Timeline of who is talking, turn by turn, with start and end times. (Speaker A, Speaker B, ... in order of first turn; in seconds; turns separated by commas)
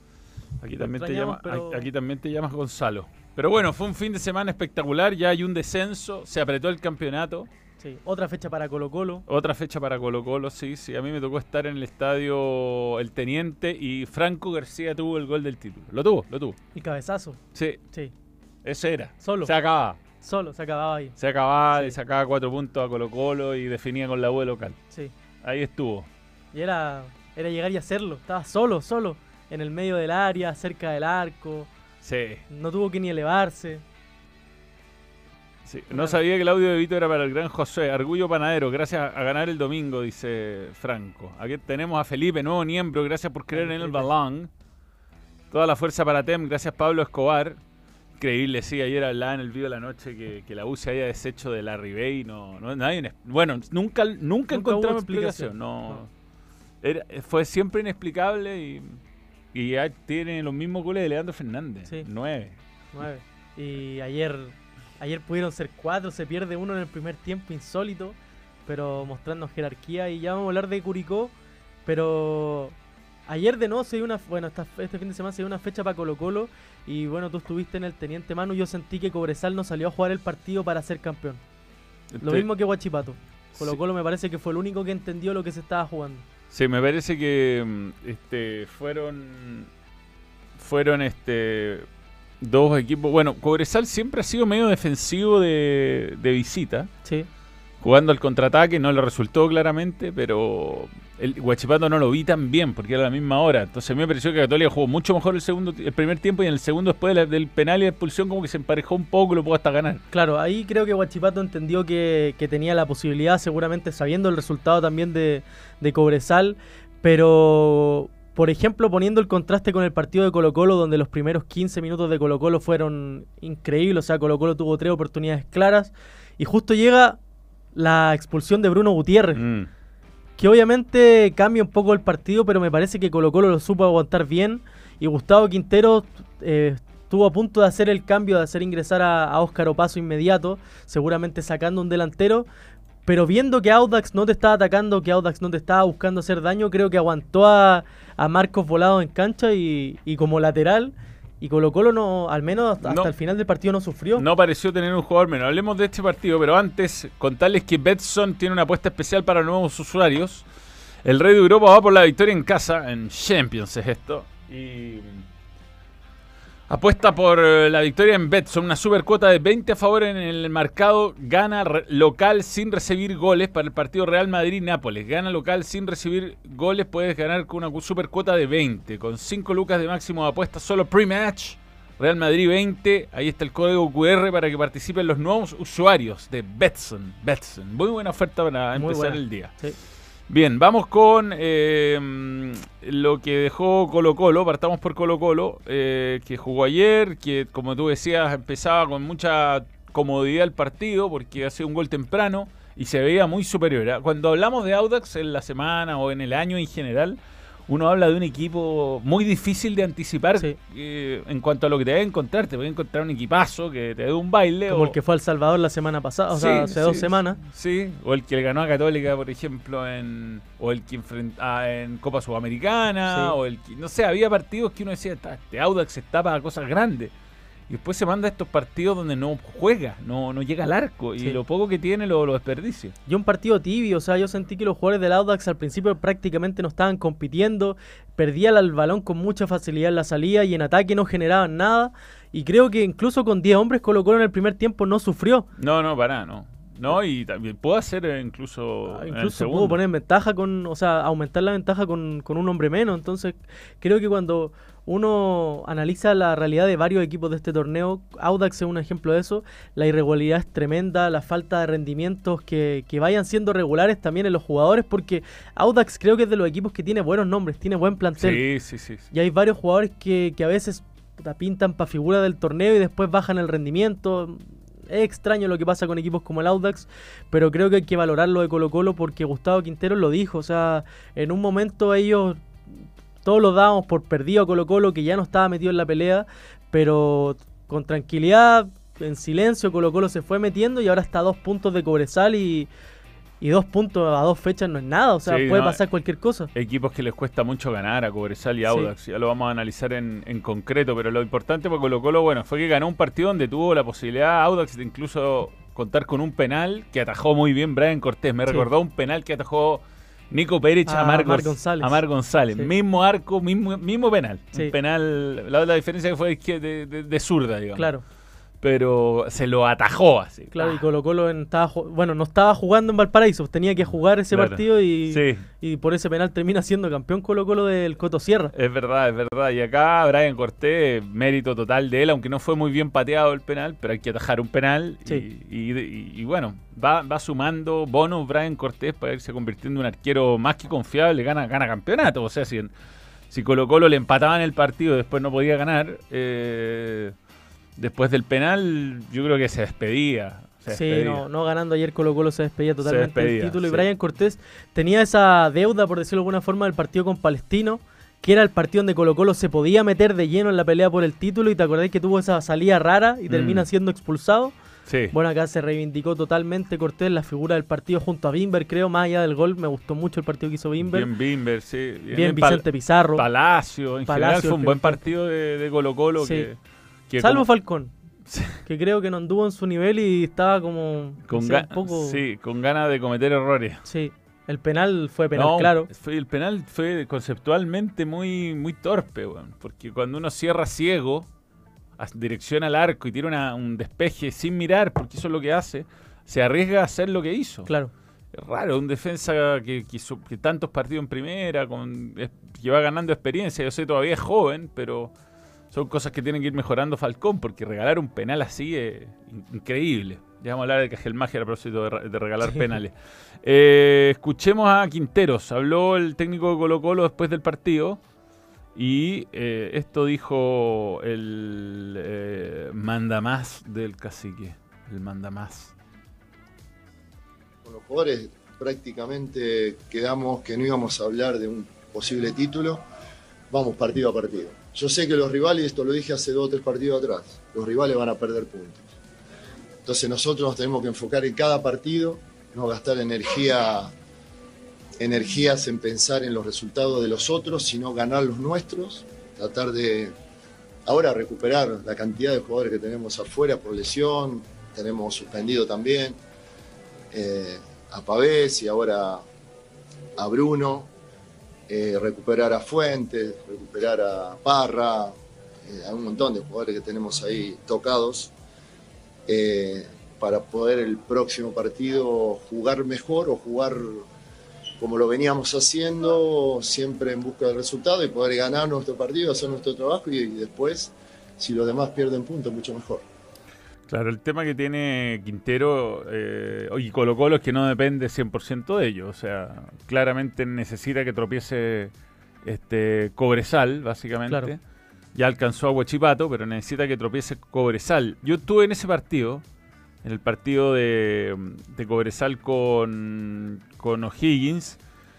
Speaker A: 0.6-7.5, Speaker B: 0.8-1.9, Speaker B: 7.8-9.2, Speaker A: 9.3-16.6, Speaker B: 16.7-17.4, Speaker A: 17.5-17.8, Speaker A: 18.6-20.0, Speaker B: 19.2-19.5, Speaker B: 20.2-21.1, Speaker A: 21.2-24.8, Speaker A: 25.4-26.1, Speaker B: 26.5-31.7, Speaker A: 32.0-32.4, Speaker B: 32.5-33.8, Speaker A: 35.6-44.5, Speaker B: 43.5-44.1, Speaker A: 45.5-47.6, Speaker A: 48.2-56.1, Speaker B: 54.5-56.0, Speaker A: 56.8-59.0, Speaker A: 59.5-62.6, Speaker B: 62.9-68.2, Speaker B: 68.7-71.3, Speaker B: 71.8-72.8, Speaker B: 73.3-81.4, Speaker A: 82.1-82.5, Speaker B: 82.2-86.2, Speaker A: 86.5-89.7, Speaker A: 90.6-91.9, Speaker A: 92.4-96.9, Speaker A: 97.8-110.0, Speaker B: 110.1-127.2, Speaker B: 127.7-129.4, Speaker A: 129.3-129.7, Speaker B: 130.4-142.5, Speaker B: 143.1-154.2, Speaker A: 152.8-153.1, Speaker A: 154.2-160.4, Speaker A: 161.0-165.2, Speaker A: 166.7-189.5, Speaker B: 188.7-189.8, Speaker A: 190.3-214.9, Speaker B: 214.7-217.4, Speaker A: 216.3-227.1, Speaker B: 223.1-223.3, Speaker A: 227.7-232.9, Speaker B: 233.1-245.4, Speaker A: 245.6-249.8, Speaker B: 248.9-268.4, Speaker A: 268.2-269.1, Speaker B: 269.1-282.4, Speaker B: 283.2-292.7, Speaker B: 293.4-296.5, Speaker A: 295.2-295.8, Speaker A: 296.5-317.9, Speaker B: 310.9-312.0, Speaker B: 317.8-318.0, Speaker A: 318.6-320.8, Speaker B: 320.5-328.5, Speaker A: 324.3-325.4, Speaker A: 328.5-342.7, Speaker A: 343.3-347.1, Speaker A: 347.8-351.2, Speaker B: 350.7-364.5, Speaker A: 352.8-353.8, Speaker A: 363.3-363.6, Speaker A: 364.9-365.1, Speaker B: 365.1-371.1, Speaker A: 370.8-376.6, Speaker B: 372.1-373.2, Speaker B: 374.1-375.0, Speaker B: 376.2-376.5, Speaker A: 377.1-377.5, Speaker B: 377.2-377.9, Speaker A: 378.3-378.6, Speaker B: 378.6-382.2, Speaker A: 381.2-383.8, Speaker B: 383.8-385.9, Speaker A: 385.3-391.3, Speaker A: 392.0-397.7, Speaker A: 398.3-405.1, Speaker A: 405.7-418.0, Speaker A: 418.8-425.7, Speaker C: 427.6-432.8, Speaker C: 433.5-438.9, Speaker C: 439.8-443.9, Speaker C: 445.0-450.1, Speaker C: 450.9-456.2, Speaker C: 457.1-459.2, Speaker C: 460.2-460.9, Speaker C: 461.7-468.3, Speaker C: 469.3-474.1, Speaker C: 474.8-483.0, Speaker A: 483.9-491.9, Speaker A: 492.4-494.6, Speaker A: 495.1-499.4, Speaker A: 500.0-504.8